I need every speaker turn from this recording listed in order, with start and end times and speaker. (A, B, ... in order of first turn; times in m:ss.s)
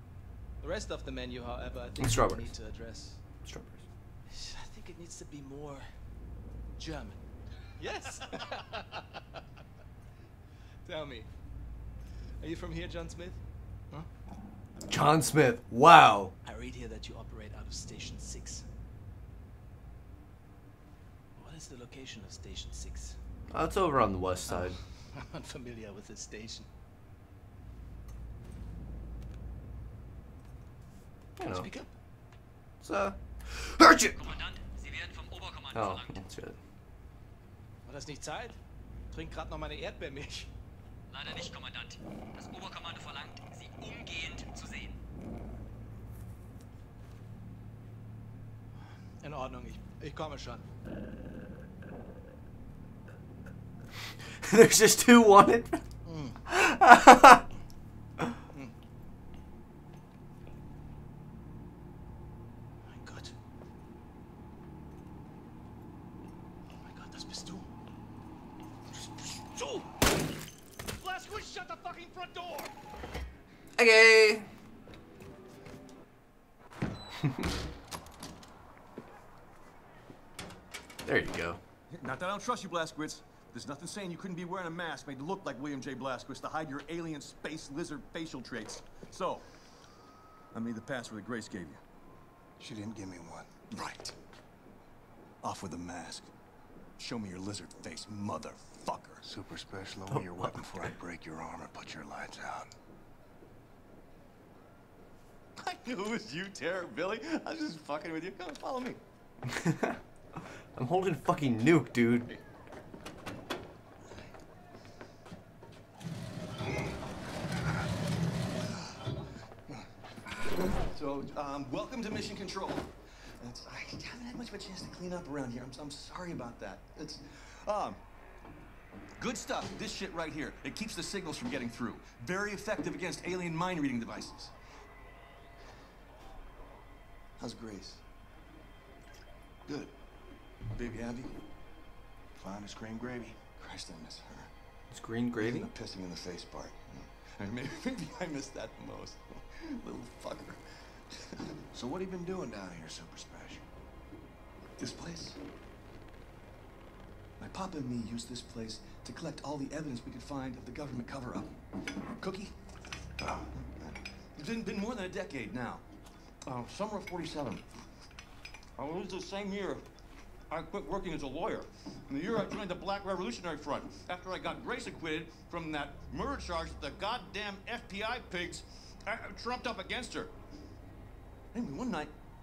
0:00.6-0:03.2 A
0:02.0-0:02.5 B
0:03.4-0:03.8 B
0:04.3-0:05.9 A
0:06.8-0:07.2 A
0:07.8-0:08.8 A
0:10.8-0:11.3 A
0:12.4-0:13.4 A
0:14.9-0:16.3 B
0:16.4-0:18.6 A
0:21.4-0:23.2 A
0:23.5-0:24.8 B
0:24.5-0:26.7 A
0:31.4-0:31.7 B
0:31.5-0:31.9 A
0:32.8-0:34.4 B
0:34.2-0:36.2 C
0:35.7-0:36.6 B
0:37.8-0:38.6 A
0:39.1-0:40.5 A
0:41.1-0:44.9 C
0:49.2-0:50.6 A
0:54.4-0:55.8 B
0:56.0-0:56.4 A
0:56.5-0:57.4 B
1:02.8-1:03.3 A
1:06.7-1:07.7 A
1:11.9-1:12.7 D
1:13.8-1:14.5 B
1:21.0-1:21.6 B
1:21.9-1:29.4 D
1:30.5-1:31.8 D
1:32.6-1:33.5 E
1:33.7-1:34.1 D
1:35.4-1:36.3 D
1:37.0-1:39.2 D
1:39.2-1:42.7 E
1:45.6-1:49.0 D
1:49.5-1:52.3 B
2:00.8-2:08.0 D
2:09.2-2:14.5 D
2:17.4-2:18.0 D
2:19.7-2:19.9 E
2:20.7-2:21.3 D
2:22.4-2:23.4 E
2:23.6-2:24.5 D
2:24.9-2:25.7 B
2:25.4-2:30.6 D
2:31.1-2:31.5 D
2:31.7-2:33.6 E
2:34.8-2:35.4 D
2:37.4-2:41.5 D
2:42.2-2:42.5 D
2:43.6-2:45.8 D
2:46.4-2:47.6 D
2:48.8-2:49.8 D
2:50.5-3:00.3 D
3:01.5-3:02.1 D